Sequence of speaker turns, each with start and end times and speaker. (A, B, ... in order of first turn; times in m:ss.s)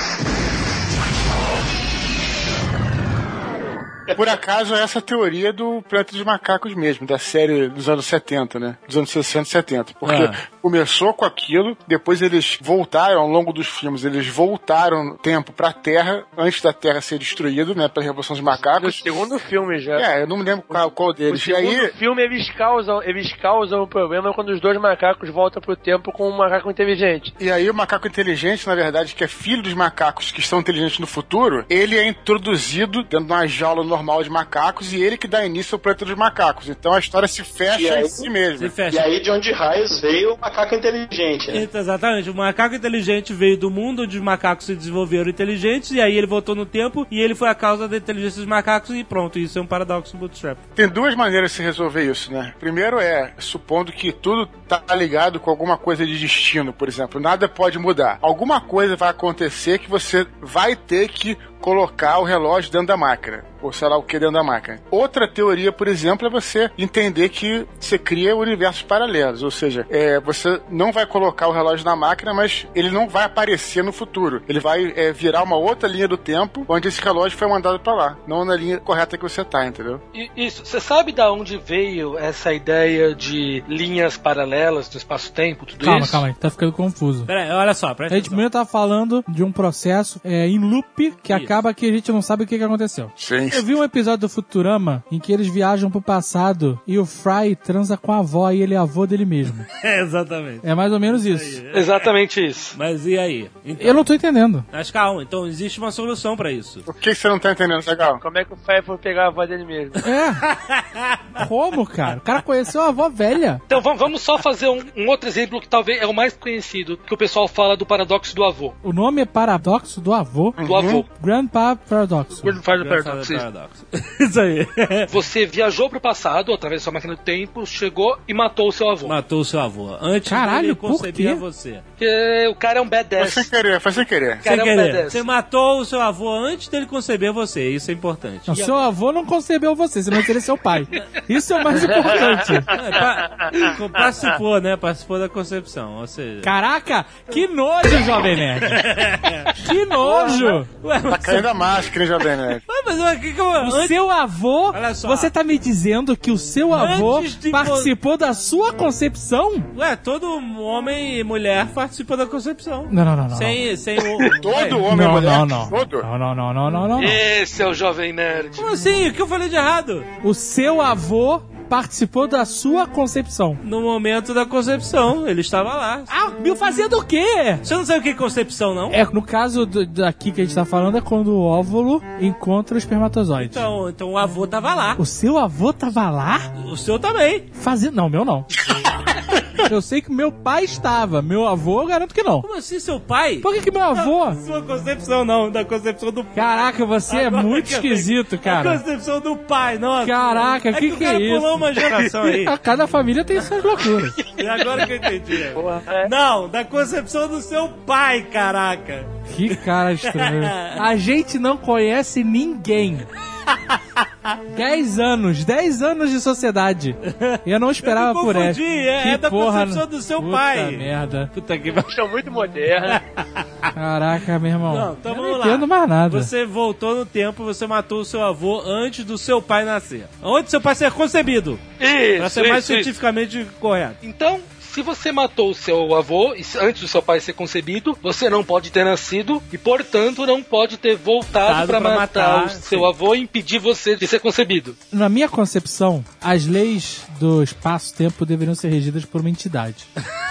0:04.2-0:19.0 A
0:10.0-0:10.4 B
0:18.6-0:20.0 C
0:19.9-0:21.9 A
0:20.7-0:27.3 C
0:27.4-0:38.7 A
0:37.7-0:38.3 D
0:38.6-0:39.1 B
0:38.9-0:41.7 D
0:41.5-0:50.6 B
0:50.8-1:20.0 A
1:20.1-1:26.2 E
1:25.8-1:27.3 F
1:27.3-1:28.4 B
1:28.1-1:39.7 F
1:31.3-1:31.6 B
1:33.2-1:33.8 A
1:39.8-1:42.0 B
1:40.6-1:41.6 F
1:41.7-1:42.7 E
1:42.7-1:44.0 B
1:43.8-1:44.6 F
1:44.7-1:46.8 B
1:46.9-1:48.2 A
1:48.2-1:50.0 C
1:50.0-1:50.4 F
1:50.4-1:51.4 B
1:51.4-1:53.6 F
1:53.7-1:58.7 E
1:58.8-2:02.6 F
2:00.6-2:01.0 A
2:00.6-2:01.0 E
2:02.4-2:03.4 E
2:02.7-2:05.1 B
2:05.1-2:09.1 E
2:09.0-2:11.8 B
2:10.3-2:11.4 F
2:12.0-2:13.5 E
2:13.2-2:14.4 A
2:14.4-2:15.2 E
2:14.4-2:18.6 B
2:18.5-2:22.7 F
2:22.7-2:26.5 B
2:26.4-2:28.9 F
2:28.6-2:31.5 B
2:29.5-2:30.7 F
2:31.1-2:32.6 A
2:32.7-2:34.0 B
2:33.6-2:39.7 F
2:34.7-2:35.3 B
2:36.7-2:37.9 B
2:39.7-2:44.8 B
2:42.9-2:43.6 F
2:44.4-2:46.1 A
2:44.8-2:47.2 F
2:47.0-2:48.7 E
2:48.6-2:50.1 B
2:50.2-2:53.6 F
2:53.6-2:56.1 B
2:56.1-2:57.6 F
2:57.6-2:59.0 B
2:58.9-3:03.6 F
3:03.4-3:05.0 B
3:05.0-3:06.5 F
3:06.6-3:07.5 B
3:07.5-3:08.5 F
3:09.6-3:12.4 F
3:12.4-3:22.5 B
3:13.4-3:14.4 F
3:16.3-3:18.8 F
3:20.0-3:24.2 F
3:24.2-3:30.8 B
3:25.5-3:26.1 C
3:29.3-3:33.1 F
3:33.5-3:34.4 B
3:34.5-3:41.3 F
3:37.0-3:41.9 B
3:41.9-3:43.0 C
3:42.9-3:43.7 B
3:43.7-3:46.3 F
3:44.6-3:51.6 B
3:51.8-3:52.9 E
3:52.2-3:54.0 B
3:54.0-4:04.8 E
4:01.4-4:02.9 B
4:04.9-4:09.9 F